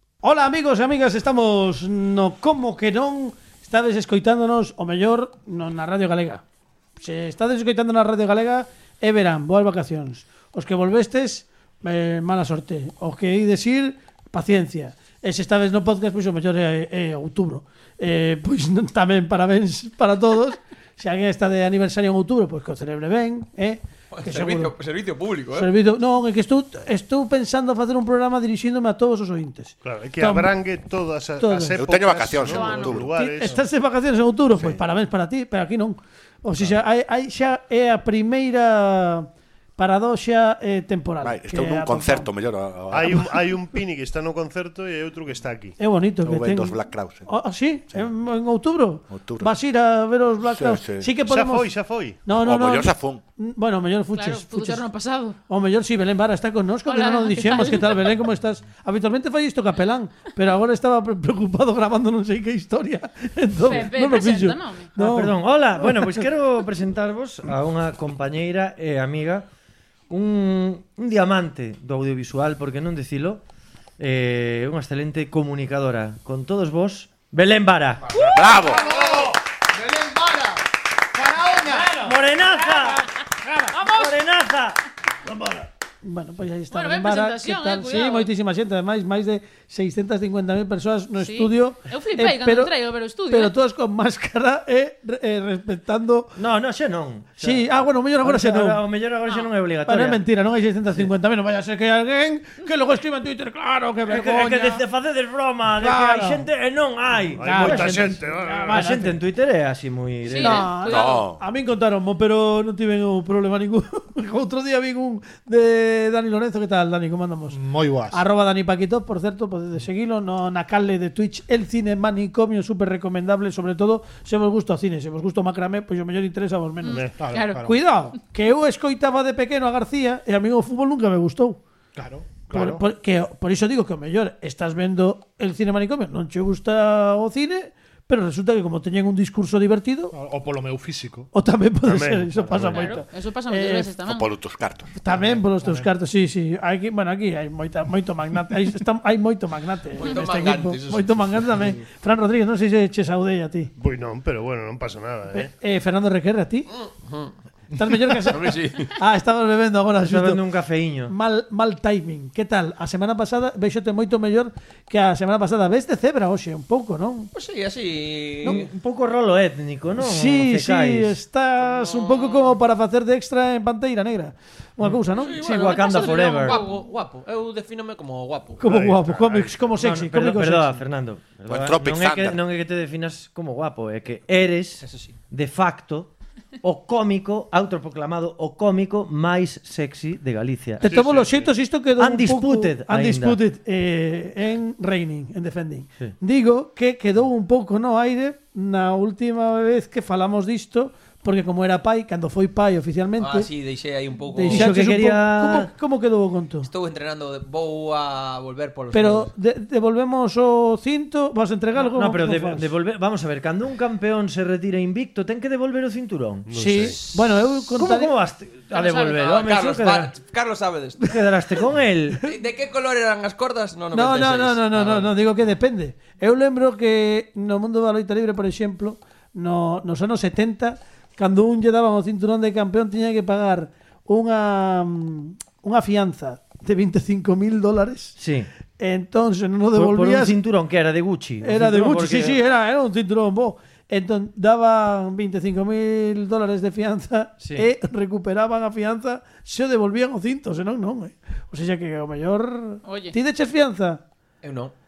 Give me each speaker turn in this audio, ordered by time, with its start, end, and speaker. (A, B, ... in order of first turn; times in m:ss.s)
0:00.2-0:06.4 A
0:07.0-0:24.7 A
0:24.1-0:25.7 B
0:25.5-0:30.6 A
0:29.8-0:33.6 C
0:31.4-0:31.8 A
0:31.7-0:33.1 D
0:32.4-0:33.0 E
0:32.9-0:42.3 A
0:34.5-0:34.8 C
0:41.2-0:43.2 D
0:42.9-0:45.8 C
0:45.8-0:51.7 A
0:46.2-0:47.3 D
0:49.1-0:49.5 D
0:50.5-0:51.1 D
0:51.2-0:52.3 C
0:52.2-0:54.8 A
0:52.4-0:53.2 D
0:54.1-0:55.4 E
0:55.5-1:05.9 A
0:56.9-0:58.0 E
1:03.6-1:04.9 E
1:05.0-1:09.5 F
1:10.1-1:13.4 F
1:14.0-1:18.1 F
1:18.2-1:20.6 G
1:18.3-1:18.8 D
1:21.1-1:22.1 G
1:21.7-1:23.0 F
1:23.7-1:24.1 E
1:23.8-1:24.8 F
1:26.0-1:32.7 A
1:26.7-1:28.3 E
1:31.2-1:33.5 E
1:33.3-1:36.3 A
1:36.4-1:40.2 F
1:37.4-1:38.8 A
1:39.8-1:44.8 A
1:44.1-1:50.7 F
1:45.7-1:46.4 A
1:47.4-1:49.0 C
1:47.4-1:49.2 A
1:50.2-1:51.2 E
1:50.4-2:07.1 A
1:50.8-1:51.4 D
1:57.5-1:58.2 G
2:06.8-2:07.6 E
2:06.9-2:07.8 G
2:07.6-2:11.6 A
2:12.0-2:12.8 G
2:12.5-2:20.1 A
2:20.1-2:21.3 G
2:21.3-2:23.9 A
2:21.8-2:22.9 C
2:22.7-2:24.3 E
2:24.0-2:24.9 D
2:25.0-2:33.7 A
2:25.1-2:25.9 G
2:30.0-2:31.6 B
2:33.8-2:35.5 C
2:35.3-2:36.7 A
2:36.7-2:37.3 B
2:37.7-2:40.4 A
2:38.1-2:38.9 B
2:40.0-2:41.1 F
2:41.1-2:47.3 A
2:47.3-2:48.6 B
2:48.4-2:51.2 F
2:50.0-2:55.5 A
2:51.6-2:52.5 B
2:54.8-2:56.6 F
2:55.1-2:58.6 B
2:55.6-2:56.8 E
2:58.6-3:00.8 A
2:58.6-2:59.7 C
2:59.8-3:06.1 F
3:01.5-3:02.4 D
3:04.8-3:05.1 B
3:06.6-3:10.9 F
3:10.8-3:23.5 A
3:10.8-3:11.5 C
3:12.0-3:13.4 F
3:23.2-3:24.7 B
3:24.3-3:26.7 A
3:24.4-3:25.7 F
3:26.6-3:29.3 B
3:28.9-3:32.7 A
3:31.7-3:36.9 F
3:36.4-3:37.0 C
3:36.5-3:38.1 A
3:37.7-3:40.1 F
3:38.7-3:39.2 E
3:39.1-3:41.2 B
3:41.0-3:42.2 F
3:42.2-3:45.1 B
3:43.9-3:58.2 A
3:58.2-3:58.5 F
3:58.8-4:00.4 A
3:59.7-4:02.4 F
4:01.4-4:14.0 A
4:07.4-4:07.7 F
4:12.8-4:13.1 E
4:14.4-4:14.7 B